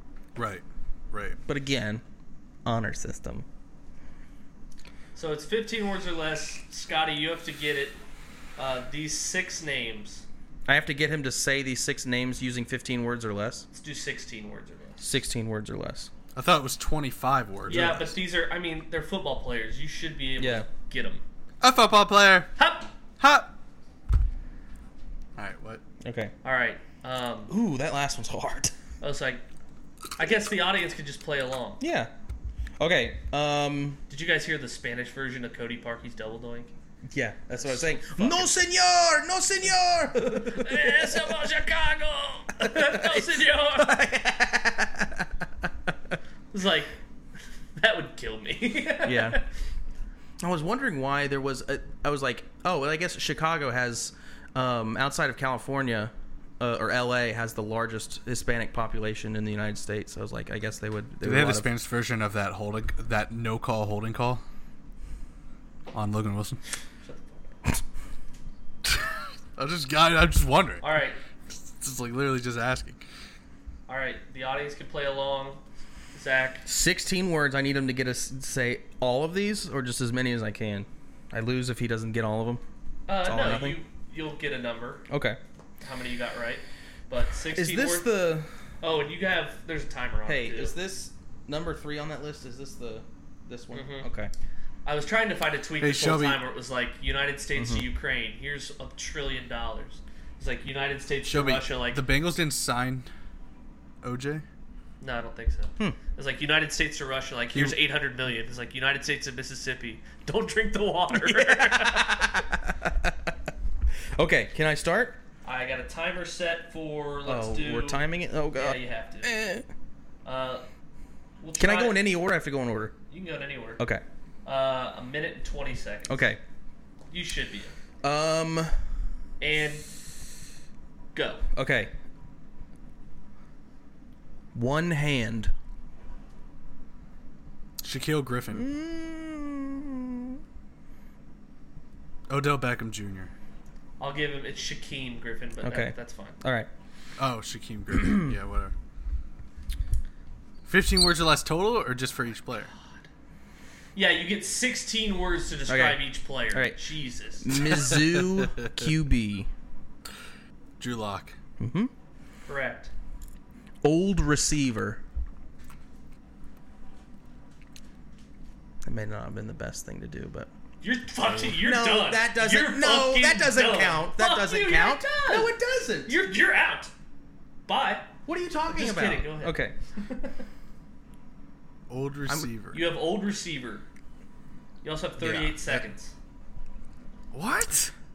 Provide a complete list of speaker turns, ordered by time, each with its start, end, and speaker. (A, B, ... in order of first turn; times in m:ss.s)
0:00.4-0:01.4 A
0:01.5-0:02.0 B
0:02.6-0:03.5 B
0:05.2-0:08.0 C
0:08.6-0:10.3 C
0:10.7-0:13.7 B
0:13.7-0:15.1 C
0:15.0-0:16.1 B
0:16.4-0:18.0 A
0:17.7-0:18.1 B
0:17.7-0:21.2 C
0:20.4-0:20.7 B
0:21.6-0:22.5 A
0:22.6-0:22.9 C
0:23.2-0:23.5 A
0:25.4-0:25.8 A
0:26.0-0:26.3 B
0:26.4-0:27.5 C
0:27.5-0:28.7 B
0:29.0-0:29.4 C
0:30.2-0:31.8 C
0:31.8-0:32.1 B
0:32.8-0:34.0 B
0:34.1-0:36.7 C
0:37.1-0:41.1 B
0:37.5-0:38.5 C
0:40.2-0:44.0 C
0:42.6-0:46.2 B
0:46.5-0:46.9 C
0:47.8-0:49.5 C
0:49.0-0:49.4 B
0:50.4-1:01.7 B
1:01.2-1:04.4 A
1:05.9-1:06.6 A
1:07.0-1:07.5 C
1:09.6-1:10.8 A
1:10.8-1:11.2 C
1:11.5-1:13.0 A
1:13.9-1:15.6 C
1:16.2-1:16.6 C
1:16.7-1:22.6 B
1:23.1-1:25.0 C
1:23.2-1:23.8 B
1:25.1-1:25.4 B
1:25.8-1:28.1 C
1:27.5-1:28.5 B
1:28.8-1:30.8 C
1:30.3-1:34.3 B
1:33.7-1:34.1 C
1:34.9-1:42.0 C
1:35.8-1:36.4 A
1:37.6-1:37.9 B
1:41.3-1:43.1 A
1:44.0-1:44.4 A
1:45.0-1:52.4 C
1:51.1-1:53.4 B
1:54.2-1:55.2 B
1:55.4-1:59.3 C
1:57.3-1:59.7 B
2:00.2-2:00.7 C
2:01.4-2:02.0 C
2:01.6-2:02.9 B
2:03.1-2:03.8 C
2:03.8-2:04.0 B
2:04.4-2:06.3 C
2:06.1-2:06.4 B
2:07.1-2:07.8 C
2:08.0-2:08.7 B
2:09.4-2:09.9 C
2:11.2-2:11.4 C
2:11.6-2:11.9 B
2:14.5-2:15.5 B
2:17.8-2:18.7 A
2:18.5-2:20.4 B
2:22.3-2:23.3 A
2:24.0-2:26.4 C
2:25.6-2:26.7 B
2:27.2-2:28.7 A
2:28.0-2:28.3 B
2:30.7-2:32.7 A
2:34.0-2:37.8 C
2:35.7-2:36.8 B
2:37.4-2:39.5 B
2:37.9-2:38.7 A
2:40.8-2:41.3 A
2:41.6-2:41.9 B
2:42.5-2:42.9 C
2:43.8-2:45.0 B
2:48.8-2:50.5 B
2:50.8-2:55.5 C
2:51.4-2:56.2 B
2:56.1-2:56.9 C
2:57.7-2:58.2 C
2:58.3-2:59.8 B
2:58.7-3:00.4 C
3:01.9-3:02.8 A
3:02.7-3:03.8 C
3:04.8-3:06.2 C
3:05.2-3:05.8 A
3:07.3-3:07.9 A